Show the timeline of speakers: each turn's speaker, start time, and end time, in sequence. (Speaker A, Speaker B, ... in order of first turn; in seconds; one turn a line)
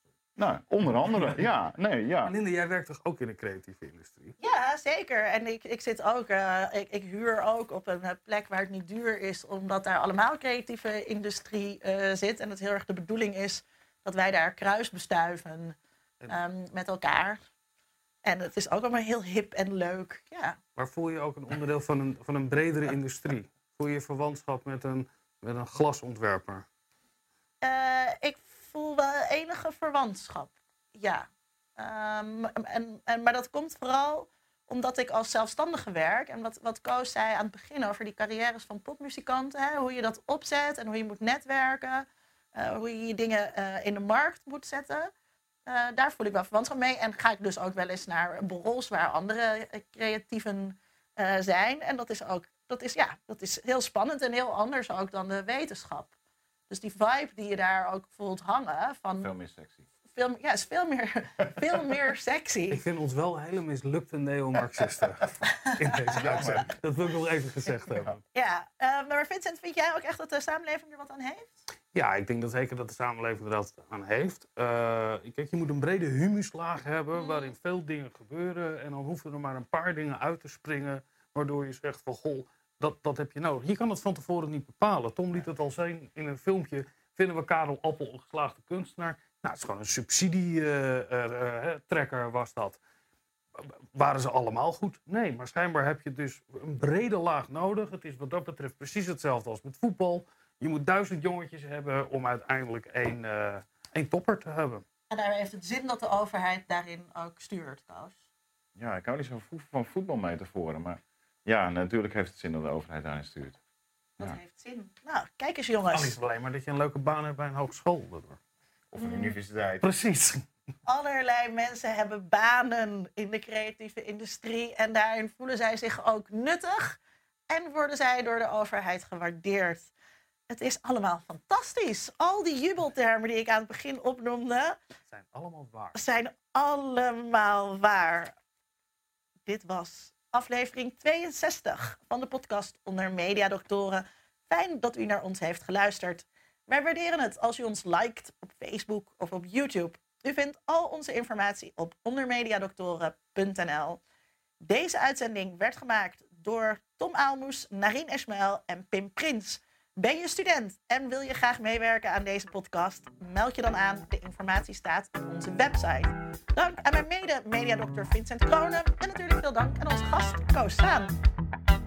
Speaker A: 0.4-2.3
Speaker B: 1.0-1.4
Speaker B: 2.2-4.3
Speaker C: 4.4-15.8
Speaker C: 16.3-17.4
Speaker C: 18.2-20.6
Speaker B: 20.8-26.6
Speaker C: 27.6-45.1
Speaker C: 45.7-56.1
Speaker C: 56.7-59.3
Speaker A: 59.2-59.9
Speaker C: 60.1-62.8
Speaker B: 62.7-68.2
Speaker C: 65.5-66.6
Speaker A: 66.2-66.7
Speaker C: 68.3-71.5
Speaker B: 71.9-92.8
Speaker C: 77.1-77.5
Speaker B: 93.6-104.8
Speaker C: 105.1-108.2
Speaker A: 108.8-113.6
Speaker C: 114.2-116.1
Speaker B: 115.9-118.4
Speaker A: 118.9-119.9
Speaker C: 119.0-119.3
Speaker B: 119.8-120.4
Speaker C: 120.9-127.0
Speaker C: 127.5-129.9
Speaker C: 130.5-134.8
Speaker B: 135.1-135.9
Speaker C: 135.9-138.3
Speaker C: 139.4-154.0
Speaker C: 154.6-171.1